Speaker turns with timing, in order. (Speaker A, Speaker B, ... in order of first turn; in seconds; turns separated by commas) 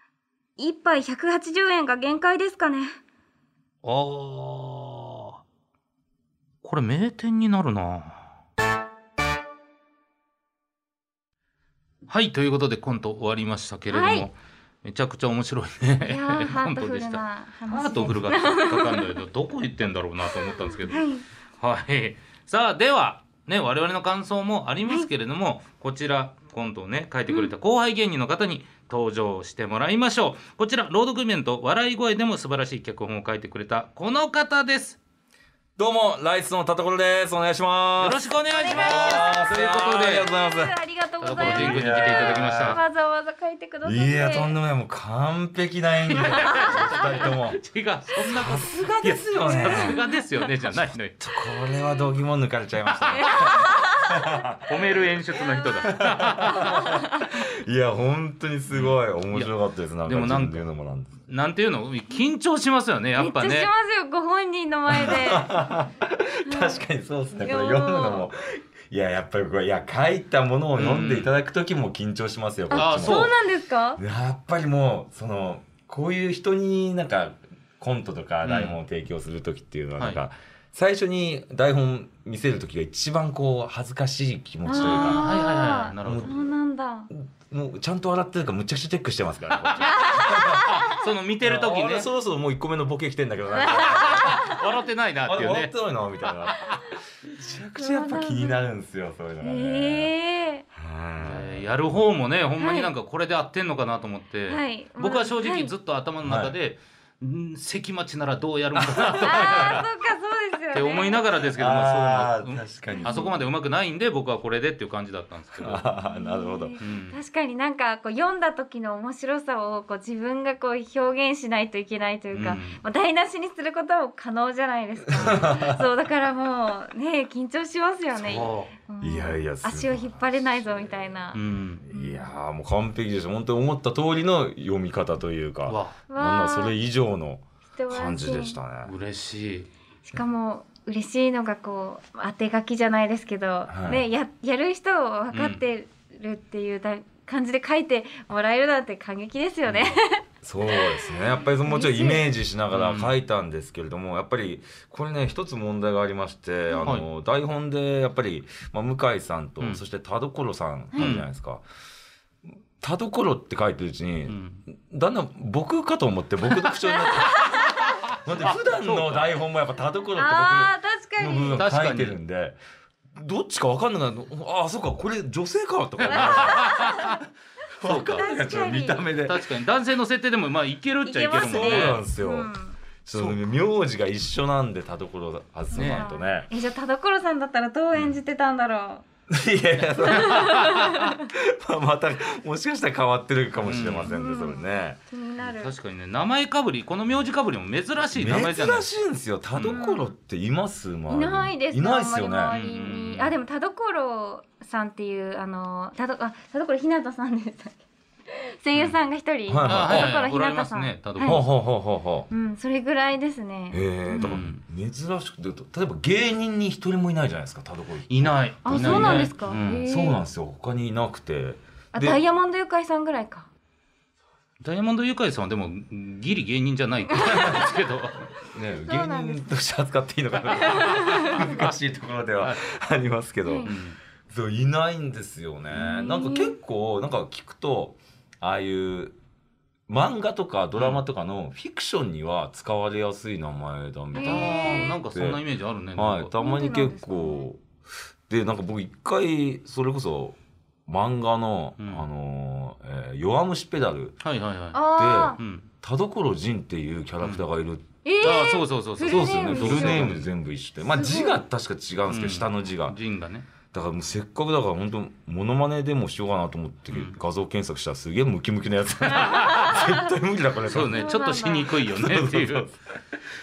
Speaker A: 0.6-3.0, Speaker B: 3.8-5.4, Speaker B: 6.6-8.3, Speaker B: 12.1-21.1, Speaker A: 13.9-14.3, Speaker A: 16.0-19.1, Speaker A: 20.9-21.2, Speaker B: 21.6-35.0, Speaker C: 35.8-40.8, Speaker B: 38.0-40.3, Speaker A: 38.5-39.5, Speaker A: 40.3-44.5, Speaker B: 41.2-42.8, Speaker C: 41.3-42.8, Speaker C: 43.8-47.6, Speaker B: 46.1-51.2, Speaker A: 46.4-46.8, Speaker C: 48.2-50.0, Speaker A: 49.5-50.5, Speaker C: 51.2-55.1, Speaker B: 52.9-53.6, Speaker A: 53.1-54.4, Speaker B: 54.7-56.9, Speaker C: 55.8-61.1, Speaker A: 56.6-57.3, Speaker B: 58.7-59.5, Speaker B: 60.1-60.7, Speaker B: 61.3-63.7, Speaker A: 63.2-65.5, Speaker C: 64.9-73.3, Speaker A: 66.5-66.8, Speaker A: 67.4-68.3, Speaker B: 70.8-71.3, Speaker A: 72.7-74.0, Speaker B: 72.7-73.4, Speaker C: 74.0-85.3, Speaker B: 78.4-78.8, Speaker A: 84.7-87.1, Speaker B: 84.8-86.3, Speaker C: 86.0-86.5, Speaker C: 87.1-90.9, Speaker B: 89.6-92.1, Speaker A: 89.9-91.0, Speaker C: 91.4-94.6, Speaker A: 93.6-94.6, Speaker B: 93.7-95.7, Speaker C: 95.2-100.1, Speaker B: 96.5-96.8, Speaker A: 97.8-98.6, Speaker A: 99.4-100.7, Speaker C: 100.7-101.7, Speaker B: 101.2-109.9, Speaker A: 102.6-102.9, Speaker A: 104.5-105.7, Speaker C: 106.2-106.5, Speaker C: 108.8-109.8, Speaker A: 109.2-111.3, Speaker B: 110.7-115.8, Speaker C: 111.5-113.3, Speaker A: 112.9-113.3, Speaker C: 115.6-116.8, Speaker A: 116.0-132.3, Speaker B: 116.8-117.2, Speaker B: 122.3-122.8, Speaker C: 125.1-125.9, Speaker B: 128.2-128.7, Speaker C: 129.0-131.1, Speaker B: 131.3-131.8, Speaker C: 131.8-138.9, Speaker B: 135.7-136.0, Speaker A: 136.1-136.8, Speaker A: 137.7-138.6, Speaker B: 138.8-139.7, Speaker A: 140.1-152.3, Speaker C: 143.7-144.1, Speaker B: 145.3-145.6, Speaker C: 149.7-161.6, Speaker B: 152.7-153.2, Speaker A: 156.7-156.9, Speaker A: 160.9-161.2, Speaker B: 161.0-161.3, Speaker C: 162.8-172.6, Speaker B: 164.3-164.6, Speaker A: 166.9-168.0, Speaker B: 168.5-169.3, Speaker A: 170.2-171.7, Speaker B: 171.6-172.2, Speaker C: 173.1-177.2, Speaker B: 176.0-177.1, Speaker A: 176.1-177.2, Speaker C: 177.8-179.5, Speaker B: 177.8-178.3, Speaker A: 177.9-179.1, Speaker B: 179.2-182.0, Speaker A: 181.0-182.8, Speaker C: 181.3-182.5, Speaker C: 183.1-186.5, Speaker B: 183.2-183.4, Speaker A: 185.7-189.0, Speaker B: 185.8-186.1, Speaker C: 189.3-195.0, Speaker A: 190.0-191.3, Speaker B: 190.1-191.1, Speaker B: 193.6-194.1, Speaker A: 194.1-195.7, Speaker B: 195.4-198.9, Speaker C: 198.1-202.6, Speaker B: 199.5-199.8, Speaker A: 199.7-200.1, Speaker A: 201.1-211.4, Speaker B: 202.5-203.4, Speaker C: 209.5-210.2, Speaker B: 209.7-211.4, Speaker C: 211.2-212.3, Speaker A: 212.3-214.4, Speaker C: 213.7-222.2, Speaker B: 214.2-214.6, Speaker B: 218.1-219.8, Speaker A: 218.6-220.2, Speaker A: 221.9-223.5, Speaker B: 224.6-228.3, Speaker A: 227.1-227.7, Speaker C: 227.3-227.7, Speaker C: 228.5-233.8, Speaker A: 228.8-229.5, Speaker A: 230.6-231.4, Speaker B: 230.7-231.7, Speaker A: 233.4-233.7, Speaker B: 233.7-234.0, Speaker C: 234.3-239.2, Speaker A: 235.7-236.6, Speaker C: 239.9-245.4, Speaker B: 240.8-241.0, Speaker A: 244.1-244.9, Speaker B: 244.2-246.3, Speaker C: 246.0-247.8, Speaker A: 246.4-247.5, Speaker C: 248.3-254.2, Speaker B: 251.8-252.1, Speaker B: 254.2-254.8, Speaker A: 254.7-255.4, Speaker C: 254.9-258.3, Speaker B: 255.4-255.7, Speaker A: 258.1-260.1, Speaker B: 258.2-260.3, Speaker C: 259.0-263.0, Speaker A: 260.9-261.4, Speaker B: 262.1-263.5, Speaker C: 263.7-273.2, Speaker B: 266.9-267.2, Speaker B: 269.1-269.8, Speaker A: 269.3-270.0, Speaker B: 270.6-272.7, Speaker A: 270.9-271.8